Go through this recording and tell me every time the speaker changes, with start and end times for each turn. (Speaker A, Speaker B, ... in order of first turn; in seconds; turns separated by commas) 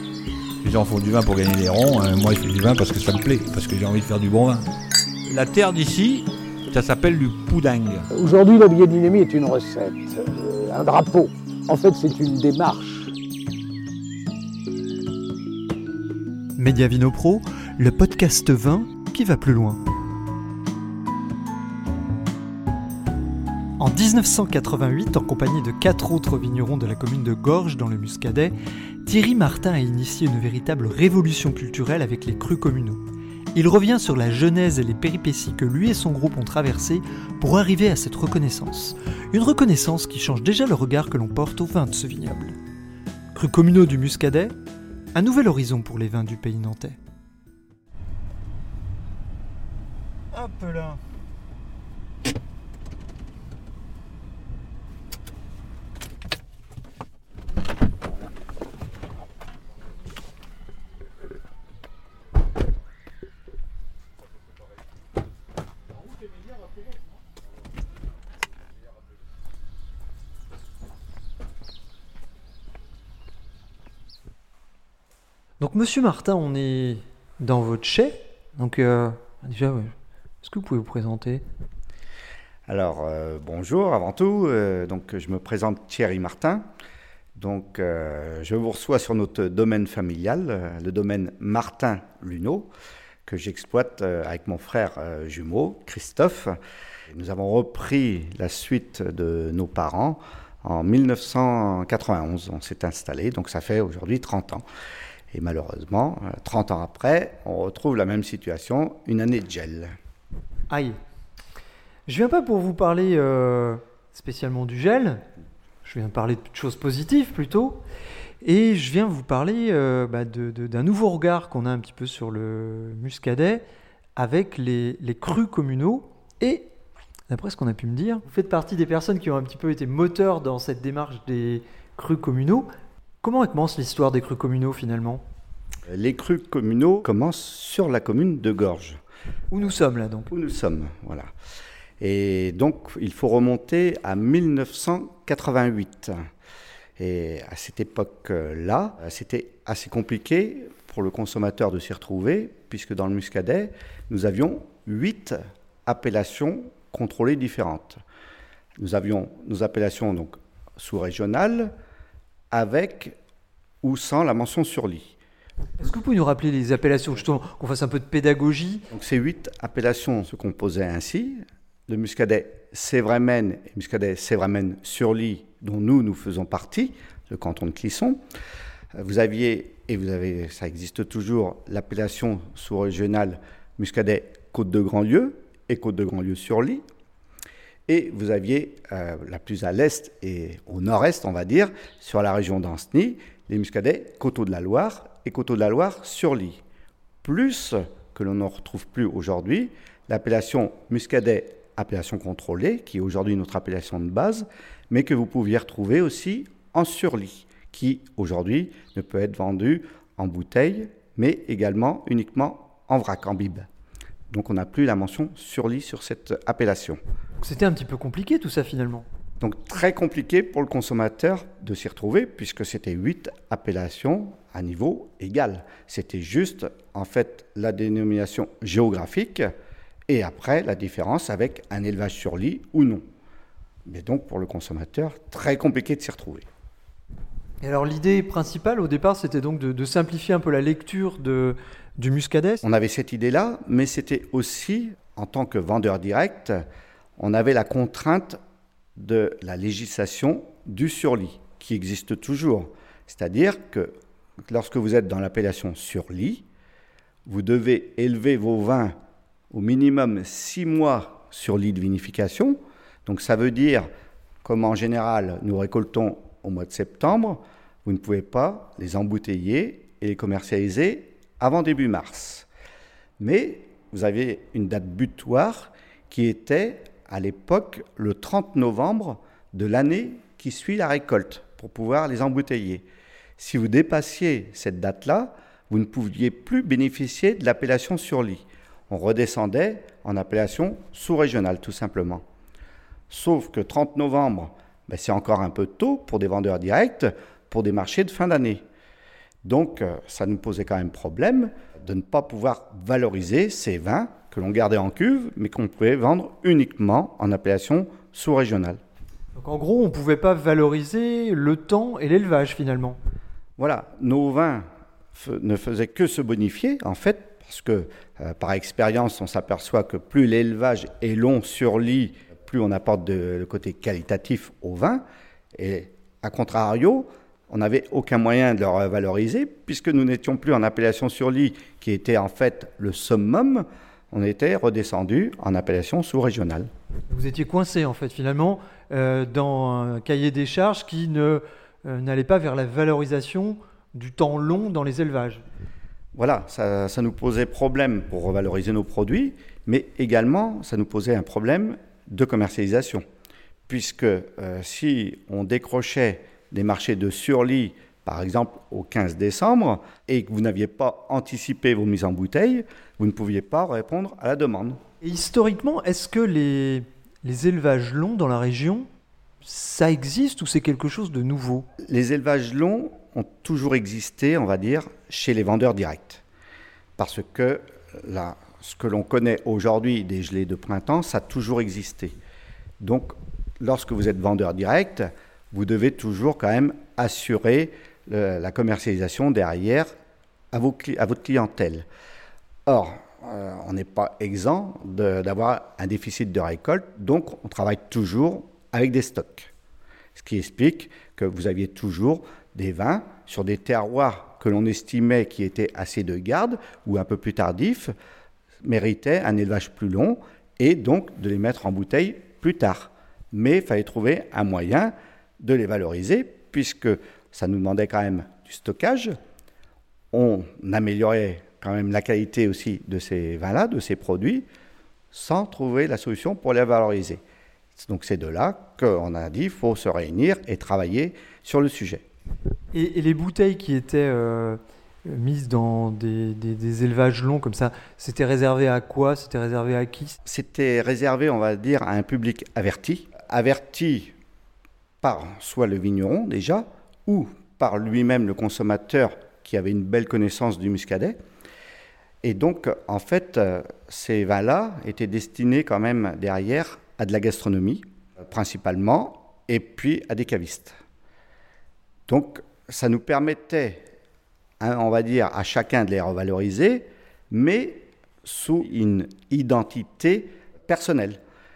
Speaker A: 0.6-4.6, Speaker A: 5.3-8.1, Speaker B: 8.1-13.1, Speaker C: 16.6-19.8, Speaker C: 23.8-28.5, Speaker C: 29.0-33.0, Speaker C: 33.5-42.6, Speaker C: 43.3-44.5, Speaker C: 45.1-47.0, Speaker C: 50.3-51.0, Speaker C: 75.6-81.4, Speaker D: 82.7-86.7, Speaker D: 87.3-92.7, Speaker D: 93.2-96.6, Speaker D: 97.1-104.6, Speaker D: 105.3-109.9, Speaker C: 110.7-111.0, Speaker C: 112.1-115.2, Speaker C: 115.8-117.8, Speaker C: 118.4-123.6, Speaker C: 124.2-126.7, Speaker C: 127.3-132.7, Speaker C: 133.2-135.2, Speaker D: 135.9-139.0, Speaker C: 139.5-140.3, Speaker D: 140.3-141.3, Speaker D: 142.0-146.3, Speaker D: 147.0-158.0, Speaker D: 158.8-161.7, Speaker D: 162.5-163.2, Speaker D: 163.8-165.2, Speaker C: 165.8-168.8, Speaker D: 168.9-178.2, Speaker D: 178.9-186.8, Speaker D: 187.9-196.6, Speaker D: 197.2-213.7, Speaker D: 214.3-217.0, Speaker C: 217.4-219.0, Speaker D: 219.4-229.5, Speaker D: 230.1-233.0, Speaker D: 233.8-236.4, Speaker C: 237.6-242.6, Speaker D: 242.6-246.6, Speaker D: 247.2-248.4, Speaker D: 248.9-253.9, Speaker D: 254.4-256.4, Speaker D: 257.2-258.9, Speaker D: 259.5-263.9, Speaker D: 264.4-272.5, Speaker D: 273.2-282.9, Speaker D: 283.4-292.2, Speaker D: 293.1-298.6, Speaker D: 299.4-308.8, Speaker C: 309.3-313.0, Speaker D: 313.6-325.0, Speaker D: 325.5-336.7, Speaker C: 337.1-345.4, Speaker D: 346.1-353.0, Speaker D: 353.7-364.8, Speaker C: 365.0-368.9, Speaker C: 369.4-371.7, Speaker D: 371.8-376.2, Speaker D: 377.0-382.1, Speaker D: 382.8-389.9, Speaker D: 390.5-391.9, Speaker D: 392.6-399.5, Speaker D: 400.1-407.9, Speaker D: 408.6-419.1, Speaker D: 420.1-424.4, Speaker D: 425.1-427.2, Speaker D: 427.8-432.0, Speaker C: 432.7-440.2, Speaker D: 440.2-444.1, Speaker D: 445.0-451.2, Speaker D: 452.2-460.8, Speaker D: 462.1-463.8, Speaker D: 464.6-471.2